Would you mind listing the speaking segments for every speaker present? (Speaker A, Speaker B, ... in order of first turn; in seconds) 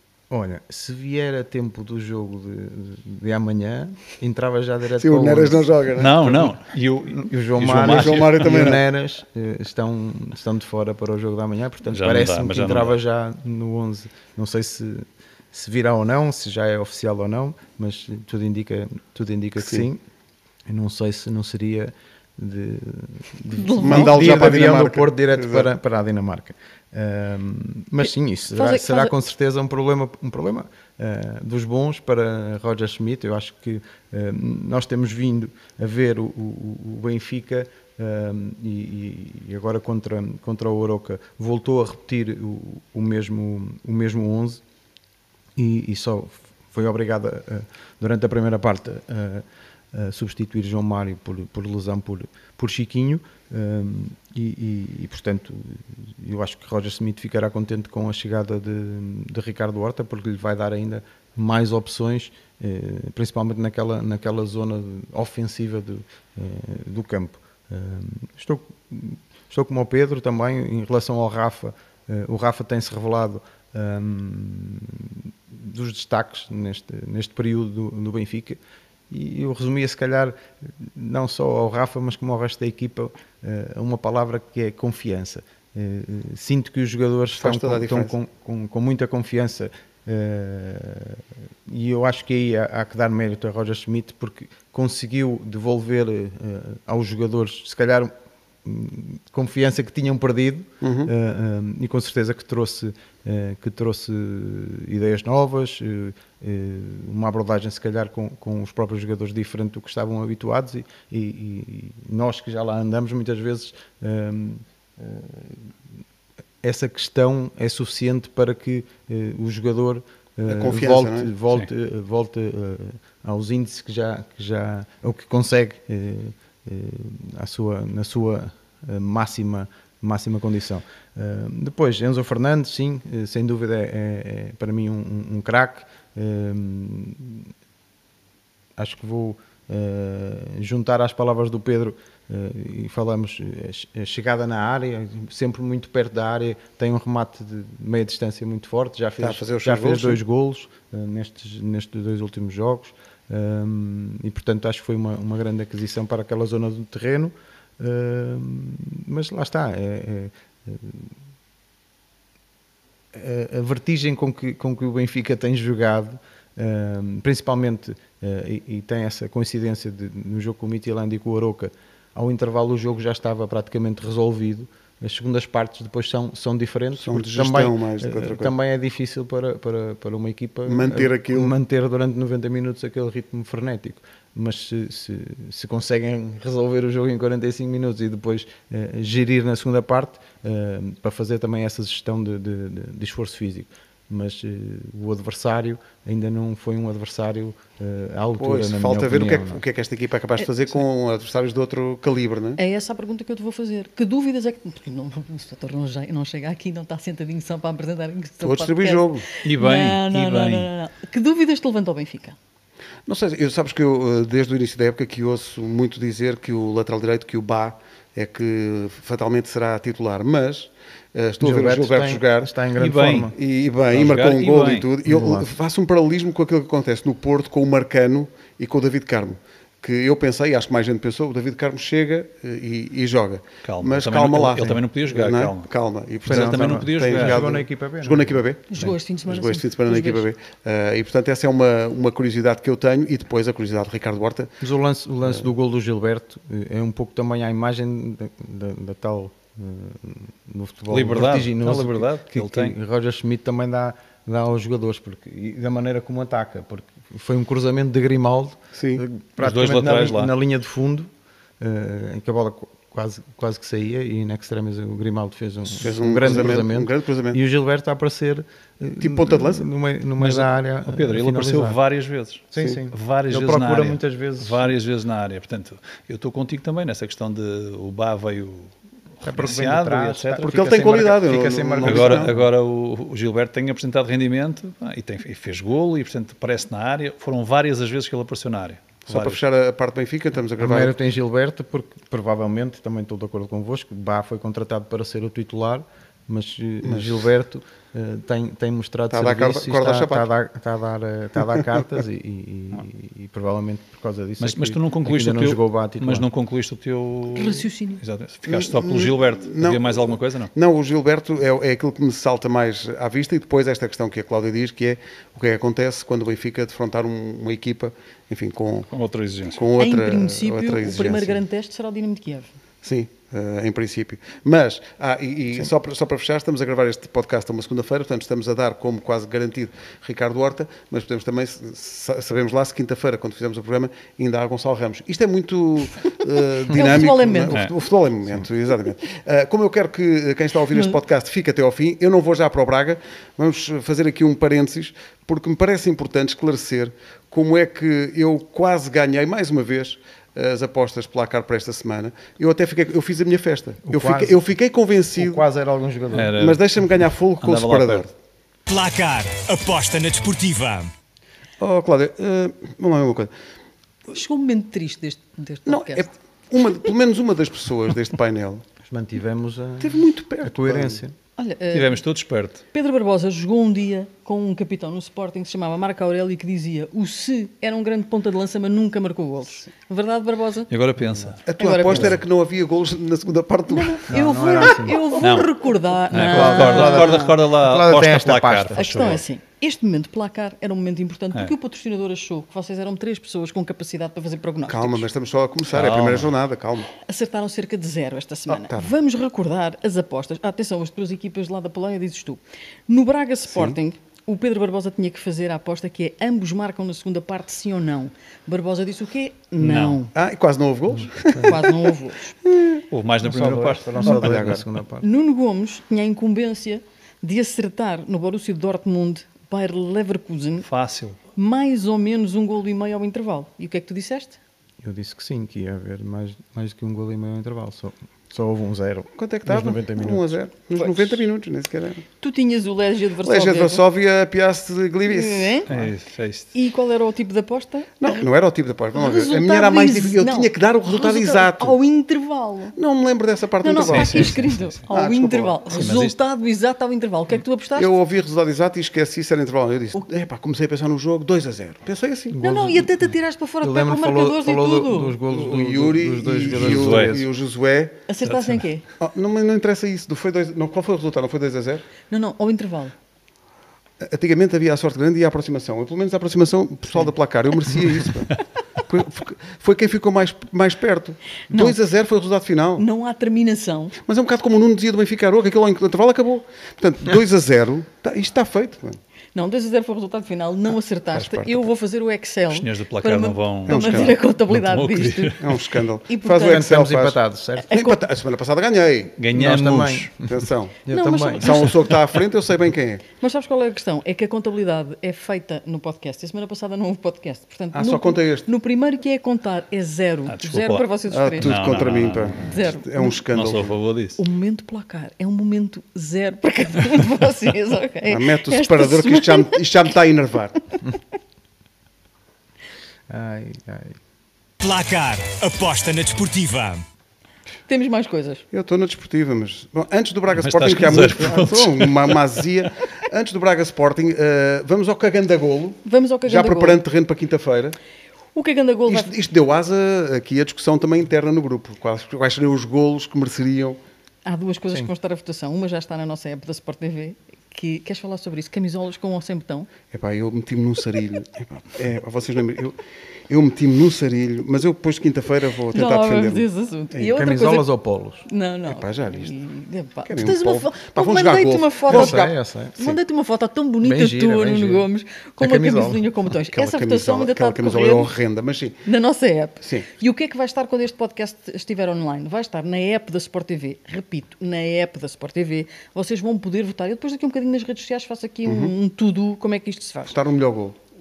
Speaker A: 0.3-5.7, 6.2-6.5, 7.1-20.0, 20.7-44.6, 45.6-78.6, 79.1-98.1, 98.6-115.7, 116.6-137.5, 138.8-161.2, 163.1-199.6, 221.4-223.3, 225.1-225.5, 236.2-238.9, 244.6-271.8, 272.5-274.7, 279.2-282.5, 290.6-306.3, 353.9-354.4, 355.1-356.4, 368.8-371.1, 381.1-381.4, 384.1-385.1, 386.1-389.1, 413.2-415.1, 424.8-430.3, 452.3-452.9, 453.6-457.3, 486.4-487.7, 489.3-490.3, 490.9-491.7, 513.1-514.0, 547.1-548.2, 551.9-552.8, 553.8-554.9, 555.4-556.2
Speaker B: 5.0-6.4, 7.8-8.8, 19.6-19.9, 23.8-25.7, 87.4-88.1, 100.8-101.1, 120.5-121.3, 149.2-150.2, 177.0-178.5, 180.7-181.5, 198.4-202.6, 208.4-209.3, 213.1-222.5, 223.3-244.6, 258.8-259.0, 265.8-267.4, 269.0-269.6, 280.4-282.4, 289.1-290.9, 296.8-297.2, 299.1-300.3, 308.5-318.9, 319.5-321.4, 322.8-355.4, 356.4-358.1, 361.6-363.3, 365.7-368.6, 369.8-371.0, 381.5-384.1, 394.7-396.9, 398.5-398.9, 403.5-403.8, 410.1-411.9, 412.4-412.8, 414.1-414.6, 429.2-432.1, 433.2-435.8, 438.0-441.8, 442.8-445.6, 447.8-452.4, 455.3-458.0, 459.0-461.9, 464.0-472.9, 474.0-479.0, 481.1-481.6, 483.7-484.2, 485.4-487.2, 487.7-489.2, 490.2-490.8, 491.4-493.0, 497.7-498.5, 501.1-503.8, 508.1-510.6, 518.5-527.8, 528.9-533.8, 539.9-547.1, 548.7-549.4, 550.1-553.0, 556.5-558.8, 559.6-559.9, 568.5-568.8, 570.1-570.8
Speaker C: 6.0-8.8, 11.9-13.0, 209.4-210.7, 222.8-223.3, 223.9-224.9, 233.6-235.7, 236.2-237.4, 250.9-252.8, 259.4-260.3, 270.2-280.9, 281.8-289.4, 304.4-310.5, 318.9-319.6, 356.1-356.7, 357.4-358.1, 371.7-372.6, 380.7-382.2, 385.2-385.5, 386.1-389.2, 395.7-396.3, 409.6-410.0, 412.9-414.6, 420.6-421.2, 435.7-436.5, 443.8-444.8, 445.7-446.1, 456.5-457.2, 458.2-458.6, 482.5-485.7, 489.2-490.1, 500.3-500.9, 501.4-502.6, 503.3-504.2, 520.4-522.5
Speaker D: 23.5-24.6, 28.1-29.1, 202.6-212.4, 238.7-240.3, 307.3-308.0, 319.8-322.5, 336.6-337.6, 364.1-366.1, 371.4-372.0, 372.7-380.7, 381.6-382.2, 383.7-387.3, 388.8-395.1, 397.0-410.1, 411.4-412.4, 415.0-420.6, 421.4-424.4, 430.8-431.1, 432.2-433.8, 435.1-435.8, 436.5-438.1, 438.9-442.8, 443.6-447.9, 452.4-455.2, 458.1-458.9, 462.1-462.9, 471.5-471.8, 472.8-474.0, 479.4-485.5, 486.1-486.7, 487.7-488.0, 490.9-491.7, 493.2-501.8, 502.4-503.2, 504.2-509.6, 517.7-518.4, 525.9-526.8, 528.4-529.1, 534.2-539.7, 545.7-547.7, 548.2-558.1, 558.9-570.2
Speaker E: 358.7-360.9, 514.6-516.8